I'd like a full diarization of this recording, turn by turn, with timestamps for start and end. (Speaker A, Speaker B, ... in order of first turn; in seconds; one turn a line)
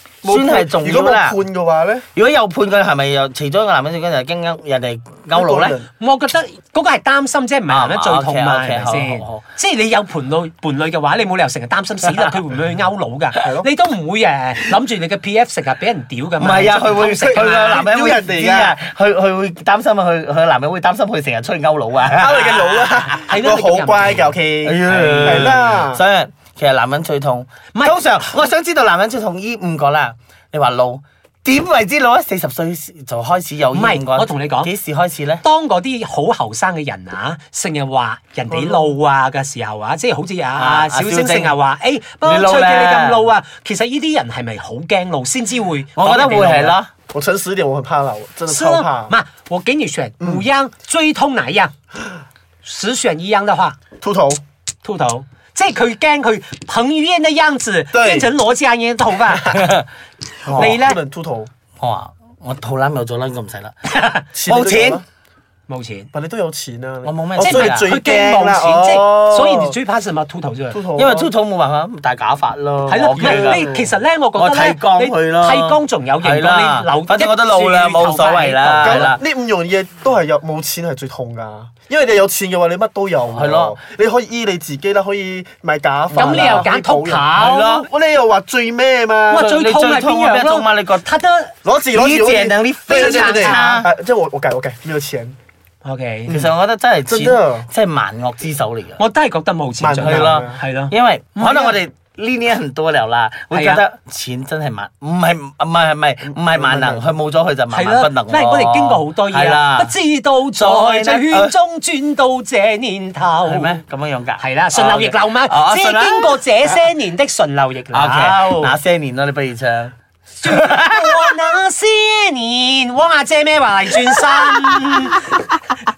Speaker A: 0.2-2.1
Speaker B: 0.2-1.4
Speaker B: 2.1-5.8
Speaker A: 5.3-5.9
Speaker C: 6.0-17.9
Speaker B: 7.7-9.4
Speaker A: 13.4-13.7
Speaker B: 16.4-23.1
Speaker A: 16.9-18.8
Speaker A: 22.1-26.0
Speaker C: 23.2-24.3
Speaker B: 24.6-35.4
Speaker C: 27.7-28.0
Speaker C: 33.7-34.7
Speaker C: 35.4-46.8
Speaker A: 38.5-39.0
Speaker B: 40.6-41.5
Speaker B: 42.2-43.2
Speaker B: 46.0-46.9
Speaker A: 47.1-49.1
Speaker C: 48.5-51.7
Speaker C: 52.6-53.8
Speaker A: 54.0-54.4
Speaker C: 54.8-59.6
Speaker A: 57.9-58.3
Speaker B: 59.5-59.8
Speaker B: 60.4-60.8
Speaker A: 60.5-61.5
Speaker C: 60.5-61.0
Speaker B: 61.8-65.0
Speaker A: 64.3-65.0
Speaker C: 65.7-66.1
Speaker A: 66.1-69.8
Speaker B: 67.0-67.9
Speaker C: 67.4-70.8
Speaker A: 70.7-71.3
Speaker B: 71.0-73.7
Speaker C: 72.9-79.1
Speaker A: 73.1-73.9
Speaker B: 74.3-79.2
Speaker A: 78.8-89.5
Speaker B: 83.3-83.7
Speaker B: 86.1-86.7
Speaker C: 86.1-87.8
Speaker B: 87.3-87.9
Speaker B: 89.3-91.1
Speaker C: 89.3-91.5
Speaker A: 91.6-95.3
Speaker B: 91.9-93.9
Speaker C: 92.9-93.8
Speaker C: 95.8-96.3
Speaker A: 96.2-96.5
Speaker B: 96.3-99.0
Speaker A: 97.0-97.7
Speaker C: 99.0-101.8
Speaker A: 99.8-100.6
Speaker B: 100.0-109.9
Speaker C: 103.5-103.8
Speaker A: 106.2-107.0
Speaker C: 107.7-113.8
Speaker B: 110.6-111.5
Speaker B: 113.4-116.4
Speaker C: 114.4-118.7
Speaker B: 117.9-119.9
Speaker C: 120.4-125.4
Speaker B: 120.4-121.3
Speaker B: 124.2-125.4